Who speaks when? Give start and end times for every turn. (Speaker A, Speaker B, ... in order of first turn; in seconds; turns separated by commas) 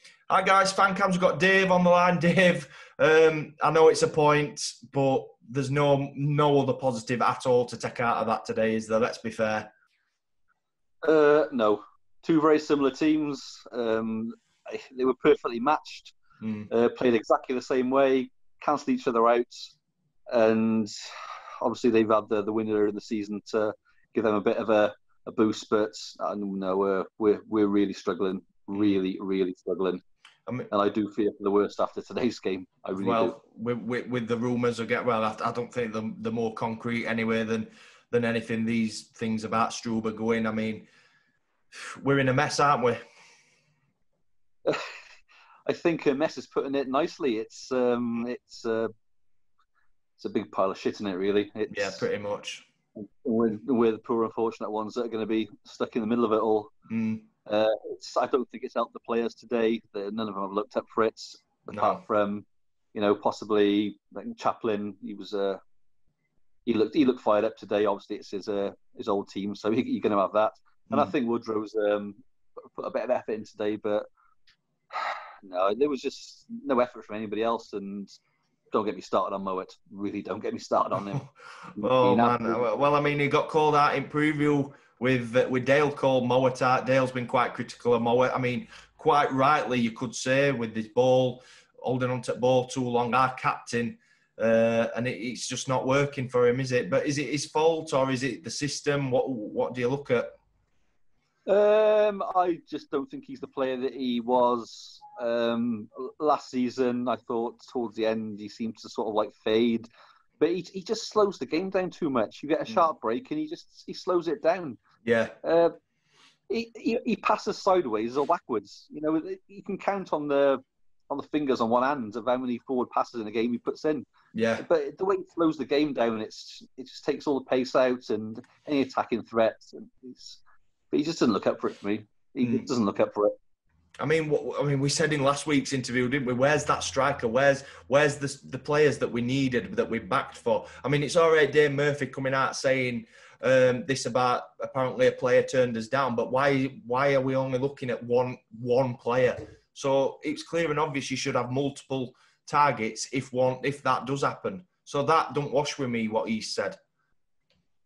Speaker A: 0.3-9.7, Speaker B: 11.0-16.1, Speaker A: 16.4-16.7, Speaker B: 16.7-19.7, Speaker B: 20.3-20.9, Speaker B: 21.6-30.0, Speaker B: 30.7-33.4, Speaker A: 33.0-40.9, Speaker A: 41.7-43.0, Speaker B: 45.7-48.9, Speaker B: 50.2-52.1, Speaker A: 51.7-52.7, Speaker B: 53.0-56.7, Speaker A: 56.9-57.3, Speaker B: 57.5-65.6, Speaker A: 61.7-62.0, Speaker B: 66.7-72.2, Speaker B: 72.8-74.0, Speaker B: 74.9-78.2, Speaker B: 78.7-82.7, Speaker A: 81.8-100.4, Speaker B: 101.5-109.9, Speaker B: 110.4-114.8, Speaker A: 115.0-115.4, Speaker B: 115.4-115.7, Speaker B: 116.5-124.1, Speaker A: 124.3-124.6, Speaker B: 124.6-130.4, Speaker B: 130.9-133.3, Speaker A: 132.4-132.7, Speaker A: 134.0-156.8